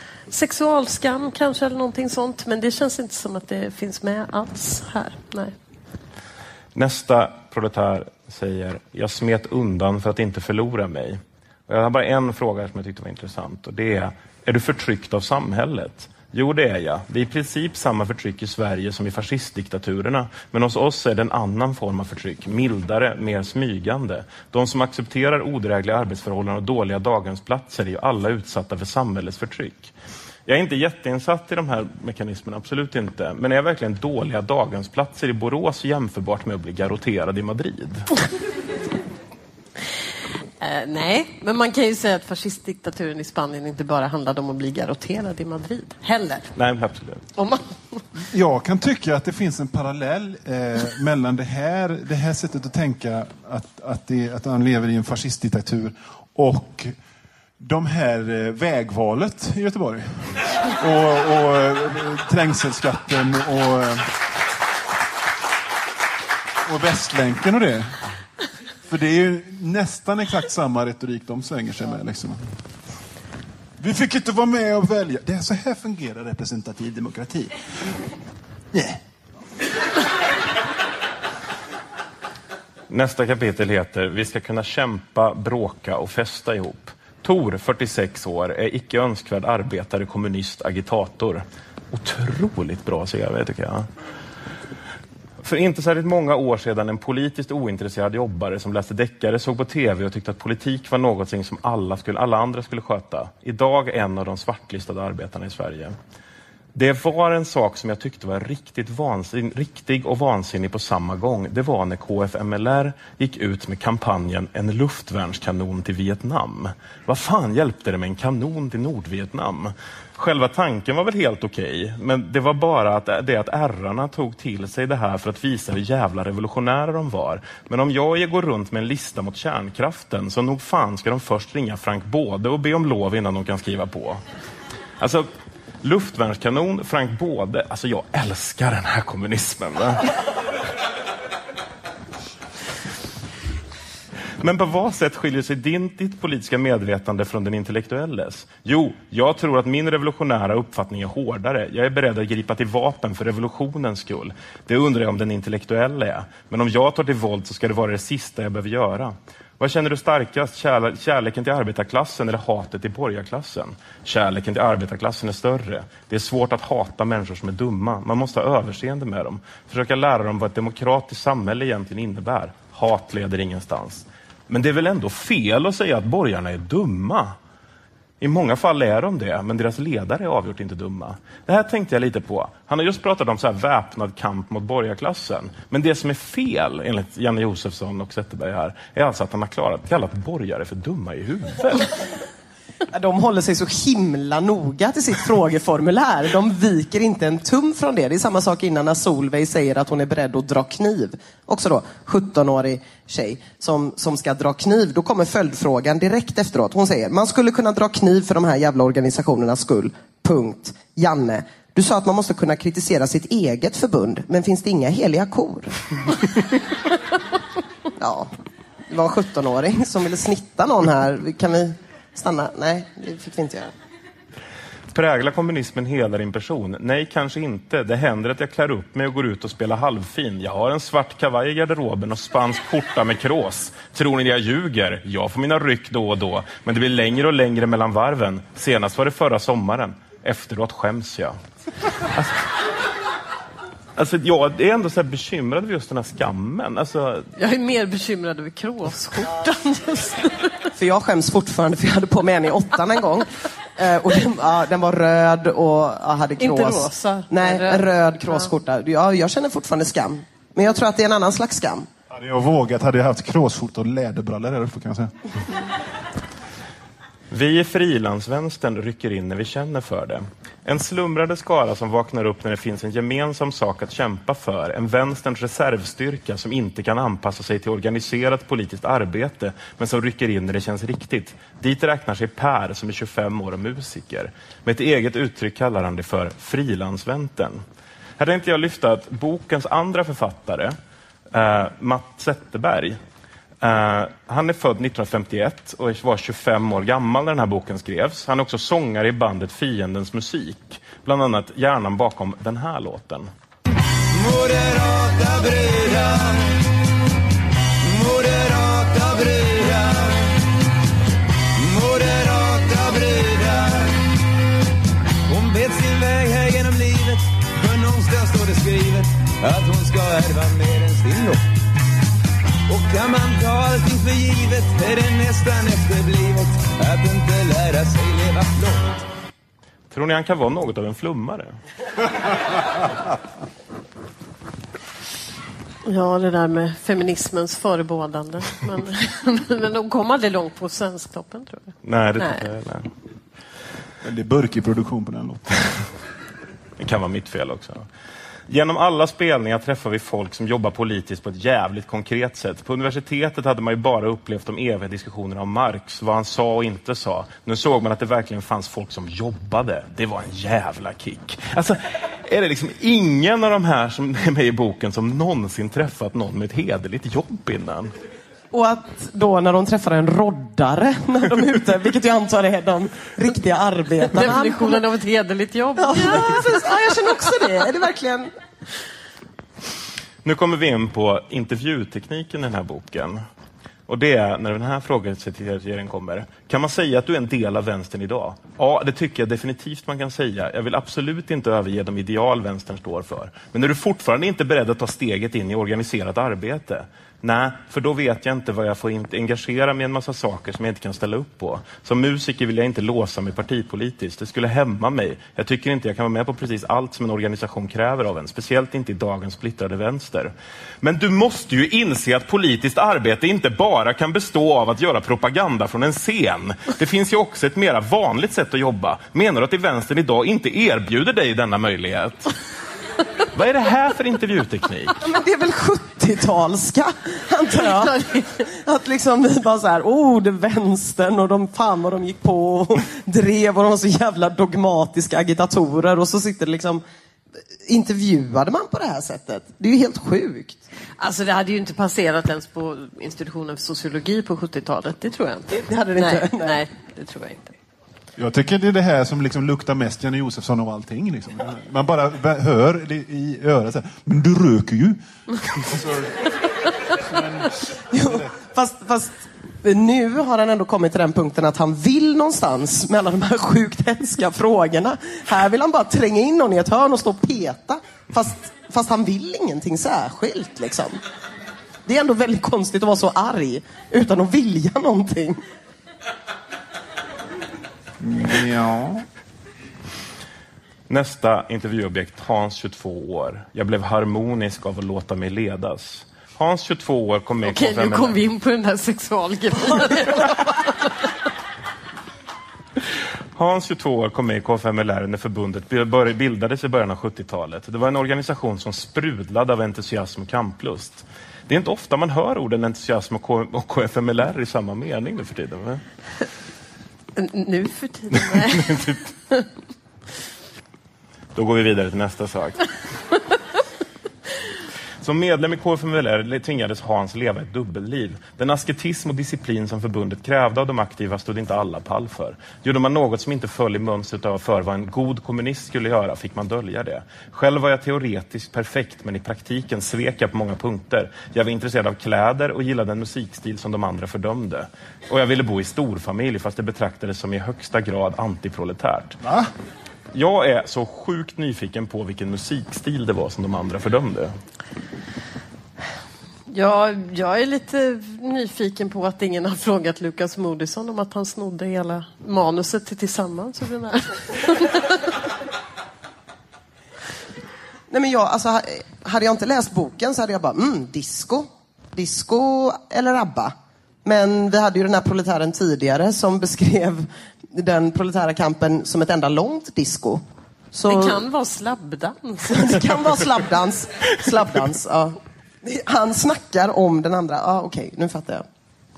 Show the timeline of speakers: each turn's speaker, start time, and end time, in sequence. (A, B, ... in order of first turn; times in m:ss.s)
0:00.3-0:05.5 A
0:06.7-0:29.9 B
0:30.5-0:38.1 B
0:40.6-0:46.5 A
0:46.6-0:47.2 B
0:47.4-0:48.0 A
0:48.3-0:56.9 C
0:57.6-1:04.1 C
1:06.6-1:08.0 C
1:08.9-1:12.4 C
1:13.8-1:17.6 C
1:18.7-1:19.0 C
1:22.9-1:33.9 B
1:35.4-1:45.9 B
1:46.7-2:14.2 B
2:15.0-2:15.3 B
2:15.8-2:20.1 B
2:24.4-2:57.4 B
2:58.2-3:11.9 B
3:12.9-3:35.7 D
3:38.0-3:38.3 D
3:38.9-3:43.7 D
3:44.9-4:01.4 B
4:02.1-4:02.4 B
4:04.0-4:07.3 B
4:07.4-4:10.7 A
4:10.7-4:21.9 D
4:16.4-4:18.5 A
4:22.1-4:25.5 C
4:27.3-4:47.6 B
4:48.2-4:50.7 B
4:51.3-4:53.0 B
4:53.6-5:03.3 B
5:04.1-5:06.6 E
5:07.8-5:10.4 E
5:11.5-5:14.1 E
5:15.3-5:21.4 E
5:22.7-5:29.0 E
5:29.9-5:31.5 B
5:35.8-5:42.4 A
5:41.8-5:42.9 B
5:44.0-5:45.9 C
5:46.8-5:47.8 B
5:48.5-6:07.9 B
6:08.5-6:14.8 D
6:14.1-6:17.3 A
6:15.8-6:18.3 D
6:20.2-6:23.2 B
6:23.9-7:02.3 B
7:03.3-7:05.0 B
7:05.0-7:16.8 D
7:07.8-7:08.3 A
7:17.7-7:20.6 D
7:21.0-7:27.5 A
7:25.5-7:26.6 D
7:28.2-7:35.0 C
7:35.5-7:36.3 C
7:36.9-7:38.3 C
7:37.9-7:51.0 D
7:51.8-7:55.4 D
7:58.0-7:59.0 C
8:00.9-8:08.2 B
8:07.4-8:10.9 A
8:13.4-8:25.8 B
8:27.2-8:29.4 A
8:28.6-8:28.9 B
8:31.3-8:32.6 B
8:35.0-8:59.2 B
8:59.2-8:59.5 C
9:00.1-9:04.3 B
9:06.5-9:15.0 A
9:17.9-9:31.2 D
9:30.9-9:33.2 A
9:32.4-9:38.4 D